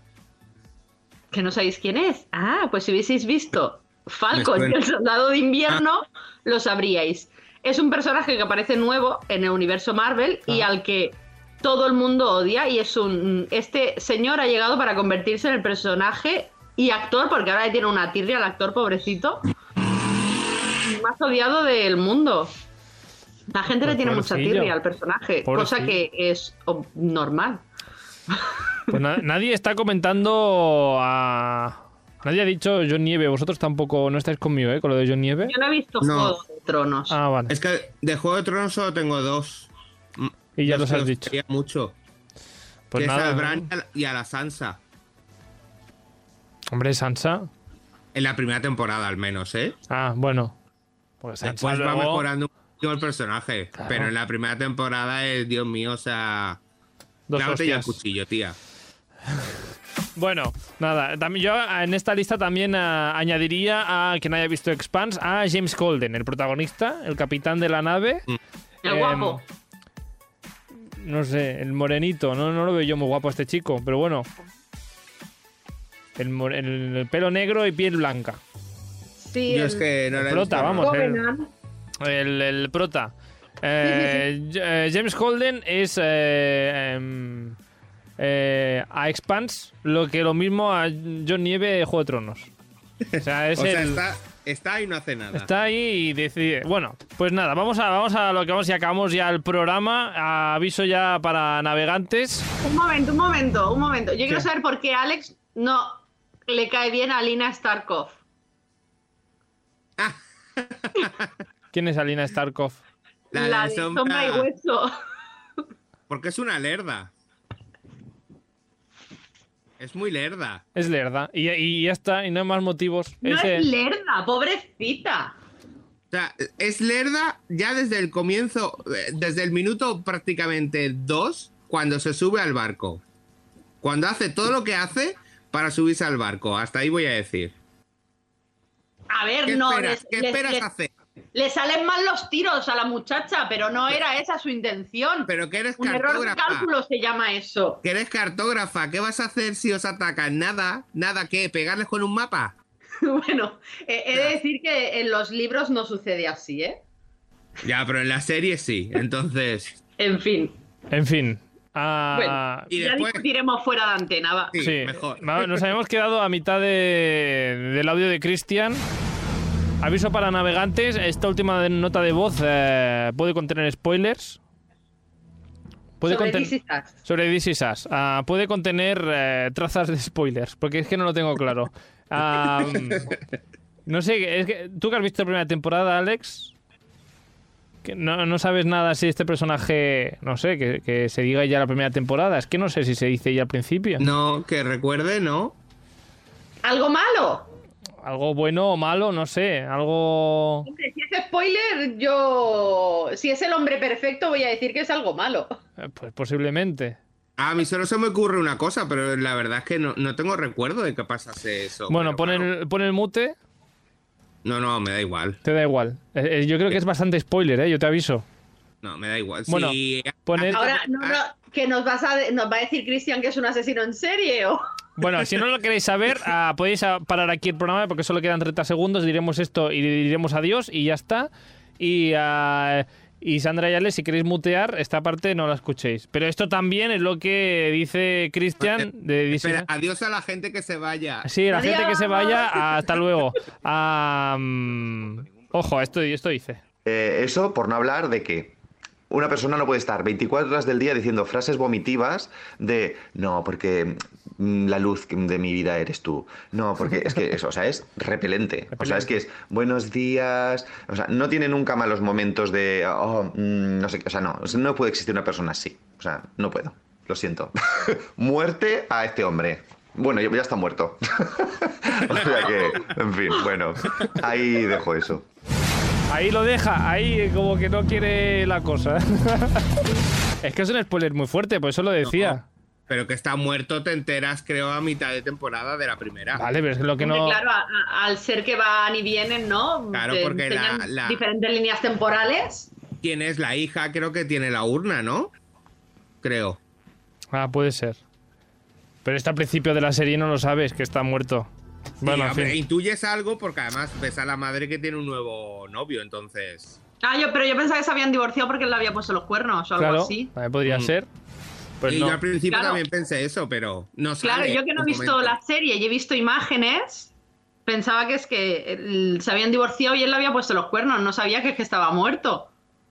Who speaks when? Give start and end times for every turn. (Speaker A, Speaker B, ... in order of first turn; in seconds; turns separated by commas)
Speaker A: 1.3-19.5, Speaker B: 4.3-4.8, Speaker A: 20.8-22.5, Speaker A: 23.5-27.6, Speaker C: 23.8-24.8, Speaker C: 25.5-26.0, Speaker C: 28.9-35.5, Speaker A: 35.5-37.1, Speaker B: 36.0-36.4, Speaker C: 37.1-37.5, Speaker B: 37.5-42.0, Speaker C: 40.6-41.4, Speaker C: 42.9-43.7, Speaker B: 43.0-44.8, Speaker C: 46.7-47.5, Speaker B: 48.1-49.8, Speaker C: 49.9-50.6, Speaker C: 51.2-52.3, Speaker B: 51.4-56.6, Speaker C: 53.8-54.1, Speaker C: 57.3-58.0, Speaker B: 57.4-58.6, Speaker C: 60.2-68.2, Speaker A: 68.8-69.4, Speaker C: 68.8-69.4, Speaker C: 70.9-74.3, Speaker C: 76.2-78.4, Speaker A: 79.2-79.9, Speaker B: 79.5-80.9, Speaker C: 80.1-81.2, Speaker A: 80.6-81.5, Speaker C: 82.0-87.6, Speaker A: 83.8-84.3, Speaker C: 88.2-92.5, Speaker B: 93.1-95.5, Speaker C: 93.2-94.0, Speaker C: 95.3-102.5, Speaker A: 102.6-108.2, Speaker B: 110.0-111.3, Speaker C: 111.7-112.8, Speaker B: 113.3-114.5, Speaker A: 113.3-114.9, Speaker B: 116.1-117.1, Speaker B: 119.8-120.6, Speaker C: 120.8-123.7, Speaker A: 123.2-125.4, Speaker B: 126.1-133.0, Speaker B: 133.8-137.6, Speaker A: 139.1-140.7, Speaker B: 139.5-140.9, Speaker A: 141.3-147.8, Speaker B: 145.3-146.7, Speaker B: 147.8-152.6, Speaker A: 153.0-156.8, Speaker B: 157.6-159.8, Speaker A: 160.0-160.6, Speaker C: 160.9-162.7, Speaker A: 162.1-164.6, Speaker B: 162.7-163.2, Speaker B: 164.5-165.5, Speaker C: 164.6-168.8, Speaker C: 169.8-174.4, Speaker C: 176.0-176.5, Speaker A: 176.1-177.0, Speaker C: 177.0-183.1, Speaker C: 183.9-186.5, Speaker C: 187.8-194.1, Speaker B: 194.0-195.6, Speaker A: 196.6-197.5, Speaker C: 198.0-200.7, Speaker A: 200.7-205.6, Speaker C: 205.8-207.0, Speaker B: 207.4-212.5, Speaker C: 211.9-213.4, Speaker B: 214.4-215.4, Speaker C: 215.4-218.2, Speaker B: 218.8-221.2, Speaker C: 219.5-220.6, Speaker A: 220.5-224.6, Speaker C: 225.0-239.7, Speaker B: 239.4-241.3, Speaker C: 241.2-246.6, Speaker A: 241.5-242.9, Speaker D: 246.8-248.6, Speaker D: 249.1-275.3, Speaker C: 258.7-259.1, Speaker C: 276.1-279.7, Speaker C: 280.4-282.4, Speaker B: 282.0-282.4, Speaker B: 282.9-286.4, Speaker C: 286.3-287.4, Speaker A: 287.0-292.7, Speaker B: 289.9-291.2, Speaker B: 293.0-295.3, Speaker B: 296.2-296.6, Speaker C: 297.3-298.0, Speaker C: 299.1-301.5, Speaker B: 302.0-306.8, Speaker C: 302.0-302.6, Speaker A: 307.0-310.3, Speaker C: 309.8-311.1, Speaker B: 310.6-310.9, Speaker C: 311.8-312.2, Speaker B: 311.9-315.4, Speaker A: 312.5-312.8, Speaker A: 314.2-317.1, Speaker A: 317.7-322.5